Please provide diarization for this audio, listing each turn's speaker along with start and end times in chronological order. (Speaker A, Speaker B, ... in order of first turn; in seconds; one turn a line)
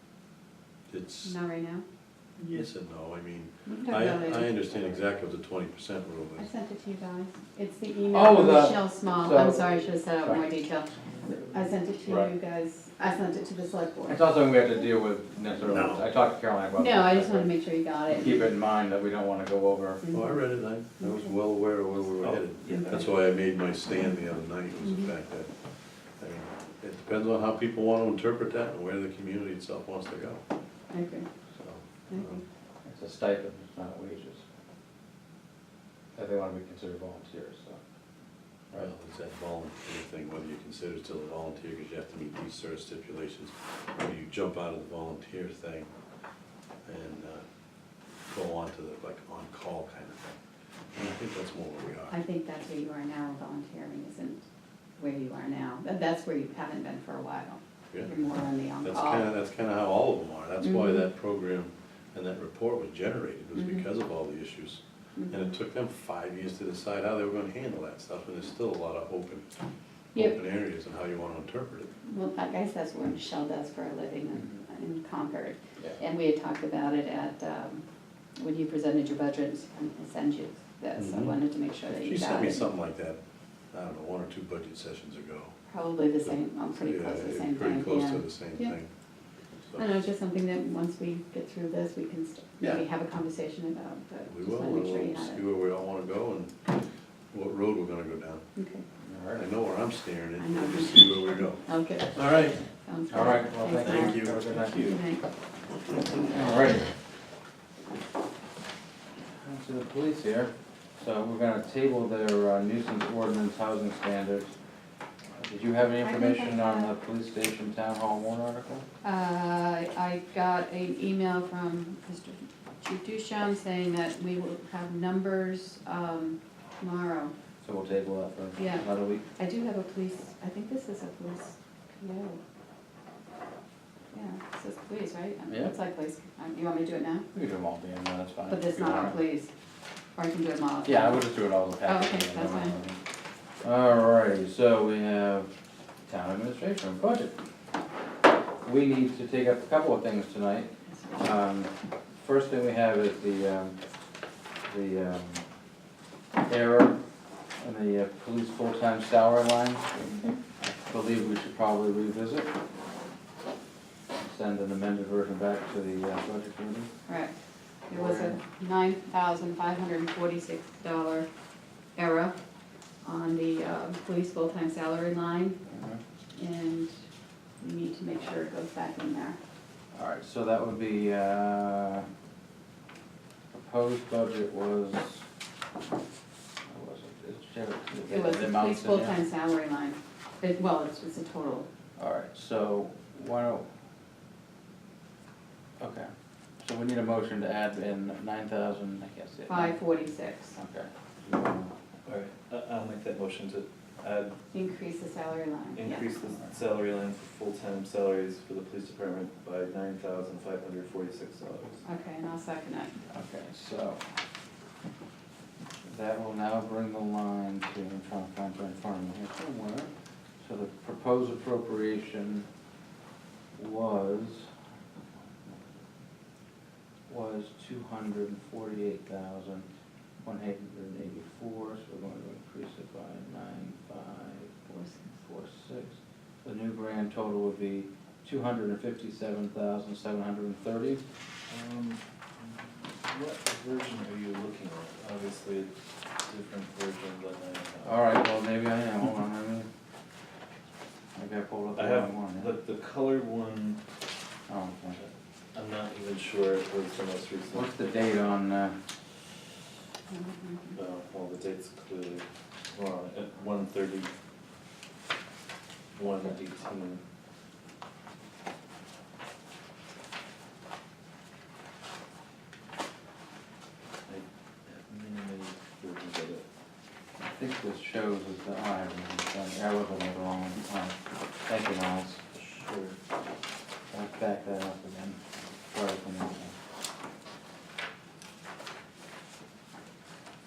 Speaker A: 0.9-1.4
Speaker B: 1.2-1.8
Speaker A: 2.4-6.5
Speaker B: 3.7-5.0
Speaker B: 6.4-10.9
Speaker C: 8.1-11.5
Speaker B: 11.5-14.3
Speaker C: 14.1-17.6
Speaker A: 15.7-16.1
Speaker B: 16.7-18.5
Speaker C: 18.1-20.3
Speaker B: 20.0-20.4
Speaker A: 20.1-25.5
Speaker B: 21.0-21.3
Speaker D: 22.2-23.3
Speaker B: 22.7-23.0
Speaker B: 24.8-25.1
Speaker A: 26.2-30.4
Speaker B: 30.9-31.3
Speaker A: 31.6-32.3
Speaker B: 32.1-32.4
Speaker C: 32.8-34.4
Speaker C: 36.1-37.8
Speaker A: 38.8-45.9
Speaker A: 46.9-47.4
Speaker A: 48.3-50.3
Speaker A: 51.0-52.2
Speaker B: 52.1-54.4
Speaker B: 55.0-59.3
Speaker A: 58.8-69.5
Speaker B: 60.6-61.0
Speaker B: 63.5-63.9
Speaker B: 65.2-65.5
Speaker A: 70.1-71.9
Speaker B: 72.0-77.8
Speaker B: 78.4-82.7
Speaker A: 81.9-83.2
Speaker A: 83.7-85.5
Speaker B: 85.7-88.8
Speaker A: 86.2-88.9
Speaker B: 89.8-95.4
Speaker A: 94.2-96.5
Speaker A: 97.3-98.4
Speaker B: 98.5-98.8
Speaker C: 99.0-99.5
Speaker A: 99.4-102.6
Speaker B: 100.4-105.3
Speaker C: 103.1-104.9
Speaker A: 103.8-104.5
Speaker D: 104.5-105.0
Speaker C: 106.1-106.9
Speaker C: 109.4-114.5
Speaker C: 115.4-118.8
Speaker B: 116.0-116.9
Speaker B: 119.0-127.3
Speaker C: 127.6-129.2
Speaker B: 128.6-132.4
Speaker B: 134.1-137.3
Speaker C: 135.5-135.7
Speaker C: 137.3-139.2
Speaker B: 138.5-139.5
Speaker B: 140.2-141.3
Speaker C: 140.8-143.0
Speaker B: 141.8-142.8
Speaker C: 143.6-145.5
Speaker C: 146.1-147.4
Speaker C: 148.6-153.8
Speaker B: 150.9-151.2
Speaker C: 154.7-155.4
Speaker C: 156.5-157.0
Speaker C: 157.6-160.1
Speaker B: 160.1-160.4
Speaker C: 160.6-162.5
Speaker C: 164.2-166.9
Speaker B: 167.1-167.3
Speaker B: 167.9-171.3
Speaker C: 167.9-168.4
Speaker B: 171.9-172.3
Speaker B: 173.0-175.6
Speaker C: 175.7-176.0
Speaker B: 176.3-176.9
Speaker B: 177.6-179.4
Speaker C: 179.9-182.1
Speaker C: 183.5-185.2
Speaker C: 186.7-189.2
Speaker B: 188.1-191.7
Speaker C: 192.0-193.7
Speaker C: 195.8-196.1
Speaker C: 196.6-199.8
Speaker B: 199.5-200.6
Speaker C: 200.6-201.7
Speaker D: 202.1-204.3
Speaker B: 204.5-206.1
Speaker D: 205.8-211.8
Speaker B: 211.8-213.0
Speaker C: 213.1-214.0
Speaker C: 215.9-222.5
Speaker C: 223.6-224.5
Speaker C: 227.1-229.7
Speaker C: 230.2-234.5
Speaker B: 234.7-235.1
Speaker C: 235.2-241.0
Speaker D: 241.5-248.0
Speaker C: 247.8-249.7
Speaker C: 251.2-252.6
Speaker D: 251.8-253.8
Speaker C: 254.5-255.0
Speaker D: 255.0-257.8
Speaker C: 257.5-258.8
Speaker B: 260.1-260.8
Speaker D: 260.8-264.1
Speaker D: 265.9-267.0
Speaker D: 274.1-276.4
Speaker C: 277.2-282.2
Speaker D: 282.3-282.9
Speaker C: 283.9-286.5